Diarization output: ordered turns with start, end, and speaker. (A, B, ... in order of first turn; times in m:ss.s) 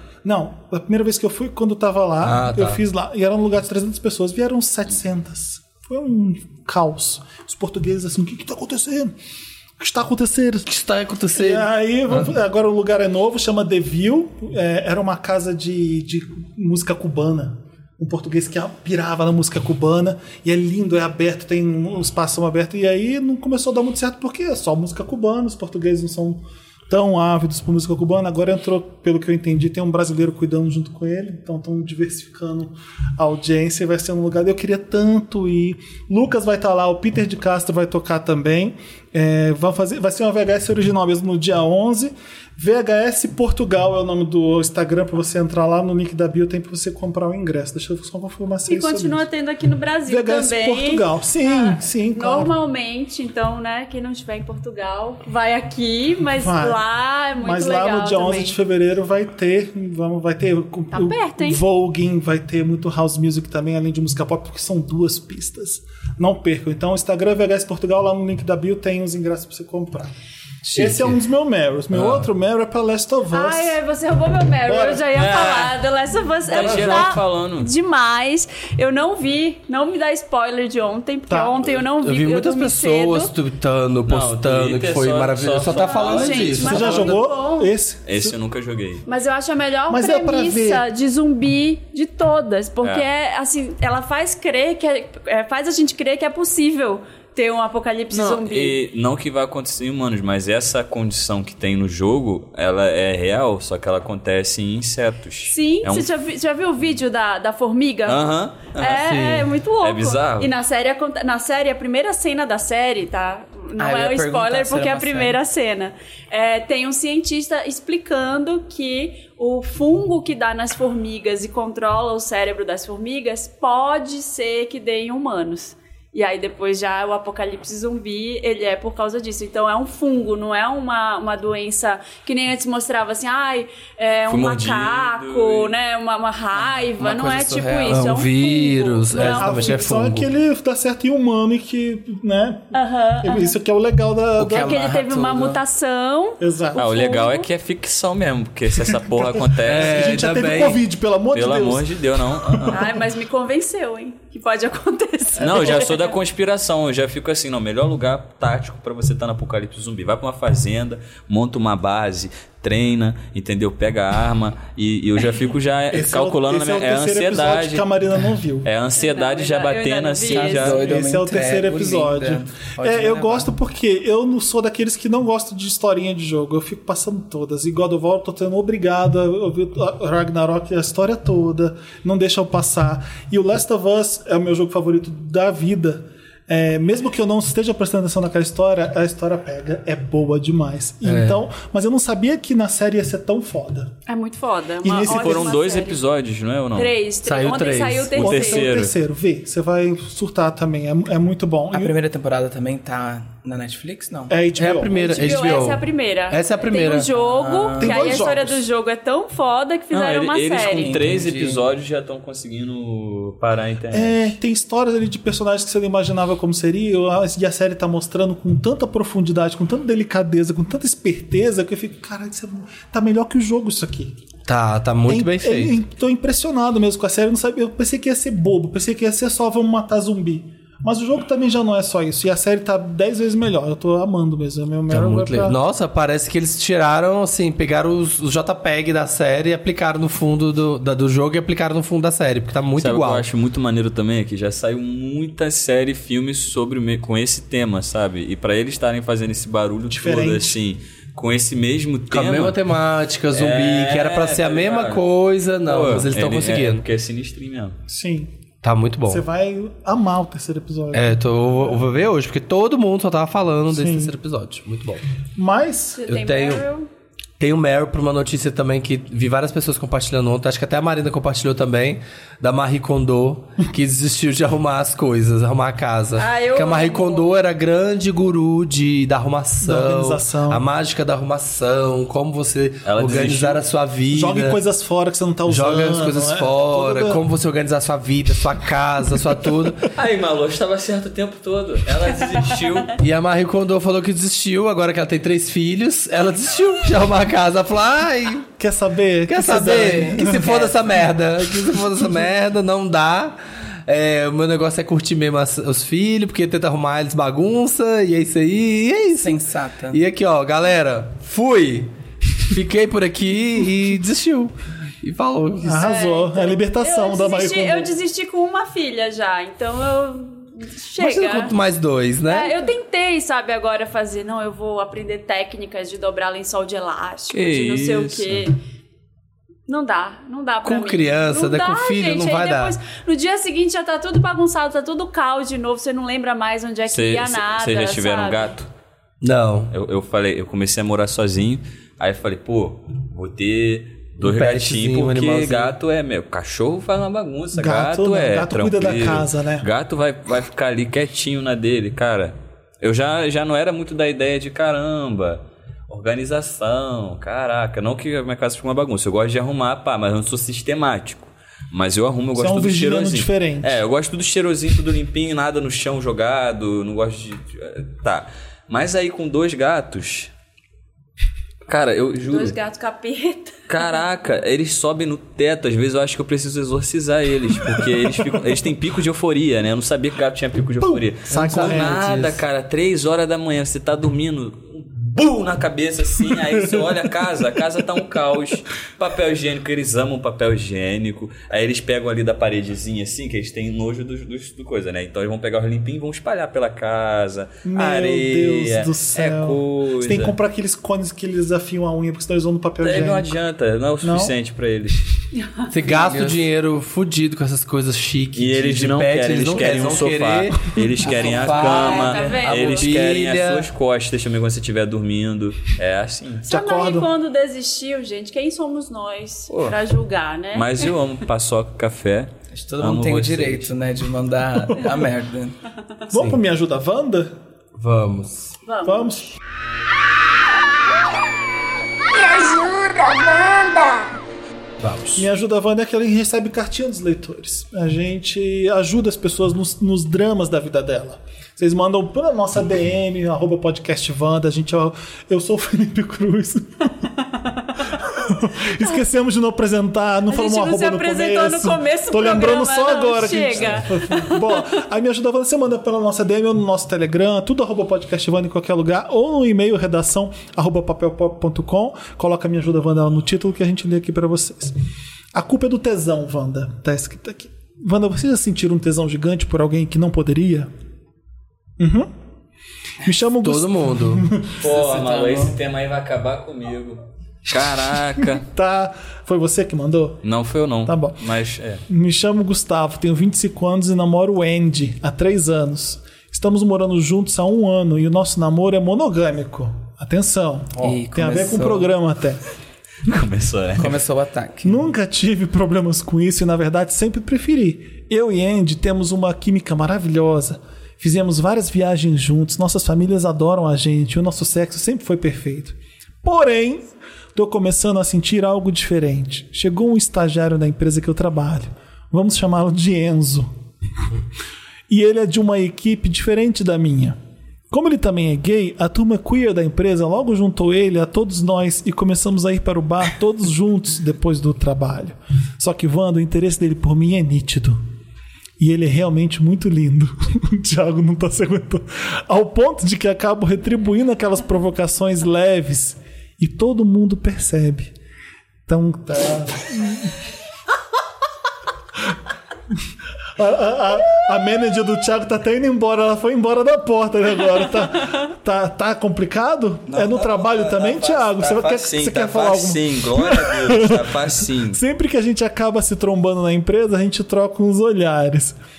0:00.2-0:09.1 A
0:02.2-0:02.8 B
0:09.8-0:10.7 A
0:10.7-0:12.3 B
0:11.3-0:49.2 A
0:48.7-0:58.6 C
0:50.1-0:52.5 A
0:56.4-0:56.8 A
0:57.4-1:10.1 A
1:00.9-1:01.6 C
1:10.6-1:11.1 B
1:10.7-1:13.8 A
1:11.9-1:12.2 B
1:13.3-1:23.3 C
1:14.6-1:15.1 A
1:15.1-1:15.8 D
1:16.5-1:17.7 D
1:16.6-1:17.0 A
1:21.3-1:21.6 A
1:21.9-1:27.2 B
1:24.0-1:26.9 D
1:25.6-1:27.7 C
1:26.6-1:28.3 A
1:28.0-1:29.0 D
1:29.1-1:38.8 C
1:29.9-1:30.8 A
1:38.1-1:46.1 D
1:45.5-2:19.9 C
1:48.0-1:49.0 D
1:49.0-1:49.5 B
1:49.8-1:50.5 D
1:53.8-1:55.4 E
2:14.3-2:15.7 D
2:16.5-2:18.2 E
2:17.9-2:20.3 B
2:19.1-2:24.8 A
2:22.7-2:23.5 C
2:24.4-2:25.6 E
2:24.6-2:27.5 C
2:26.4-2:26.8 A
2:26.8-2:30.3 D
2:29.0-2:32.7 A
2:29.6-2:30.8 B
2:31.3-2:33.0 D
2:32.7-2:36.0 C
2:35.4-2:47.8 D
2:45.9-2:48.7 A
2:48.6-2:50.8 D
2:49.0-2:50.9 C
2:50.2-2:53.5 E
2:50.8-3:13.9 A
3:11.0-3:11.4 B
3:14.1-3:16.0 C
3:14.8-3:15.5 A
3:15.0-3:16.9 D
3:16.7-3:18.7 C
3:17.2-3:18.3 B
3:18.1-3:18.9 D
3:18.2-3:21.9 A
3:21.7-3:24.3 E
3:24.3-3:25.4 A
3:24.6-3:27.1 B
3:25.0-3:31.0 C
3:27.1-3:28.2 E
3:27.8-3:28.6 A
3:29.9-3:34.3 D
3:30.8-3:31.6 E
3:33.9-3:44.2 A
3:44.4-3:45.8 B
3:45.0-3:55.6 A
3:54.9-4:03.2 B
4:02.8-4:12.6 D
4:09.9-4:10.6 A
4:12.1-4:16.8 B
4:13.3-4:15.0 D
4:15.6-4:17.8 D
4:17.9-4:18.3 A
4:18.6-4:19.2 B
4:19.0-4:21.2 A
4:20.9-4:25.0 B
4:23.7-4:24.2 A
4:25.4-4:26.0 A
4:26.0-4:26.9 C
4:26.1-4:26.6 B
4:27.4-4:44.6 B
4:36.2-4:37.3 C
4:39.6-4:40.6 A
4:42.8-4:43.6 D
4:44.1-4:47.2 A
4:45.5-4:49.9 B
4:49.9-4:52.9 D
4:53.0-4:58.5 B
4:58.6-5:00.7 A
4:59.3-5:09.4 B
5:00.3-5:00.6 E
5:09.2-5:10.0 E
5:09.9-5:15.9 B
5:15.6-5:17.9 A
5:15.7-5:21.6 C
5:21.0-5:22.7 B
5:22.2-5:28.6 C
5:27.3-5:28.5 D
5:29.7-5:38.5 C
5:30.6-5:32.8 B
5:36.9-5:38.7 D
5:39.2-5:39.7 B
5:39.7-6:10.3 D
5:44.2-5:45.7 B
5:47.5-5:49.7 A
6:02.3-6:03.8 A
6:11.7-6:12.6 D
6:12.2-6:13.6 C
6:13.7-6:40.4 D
6:20.8-6:22.0 A
6:21.3-6:22.4 B
6:37.6-6:43.4 A
6:42.8-6:45.0 D
6:44.0-6:44.3 A
6:45.7-6:53.7 B
6:45.8-6:46.4 E
6:48.4-6:56.4 D
6:51.1-6:52.4 E
6:51.5-6:53.0 C
6:56.5-7:00.8 C
6:56.5-6:57.1 A
6:59.5-6:59.8 D
7:00.5-7:03.7 D
7:02.5-7:05.6 E
7:06.1-7:07.4 A
7:07.8-7:08.6 B
7:08.6-7:09.2 C
7:08.8-7:09.3 A
7:12.1-7:14.2 F
7:14.8-7:15.2 B
7:15.1-7:27.1 A
7:27.9-7:44.8 A
7:30.3-7:34.6 C
7:45.3-7:50.7 A
7:51.8-7:52.1 A
7:53.0-7:54.5 A
7:53.4-7:54.3 B
7:54.6-7:58.4 D
7:54.6-7:55.6 E
7:58.2-8:00.2 A
8:00.2-8:01.8 D
8:00.8-8:01.2 A
8:01.9-8:12.4 A
8:10.8-8:11.9 E
8:13.0-8:13.9 D
8:13.8-8:14.8 E
8:14.6-8:33.5 A
8:34.9-8:37.2 A
8:37.7-8:47.8 A
8:48.6-8:57.9 A
8:58.7-9:00.1 A
9:03.4-9:18.6 A
9:09.9-9:14.8 D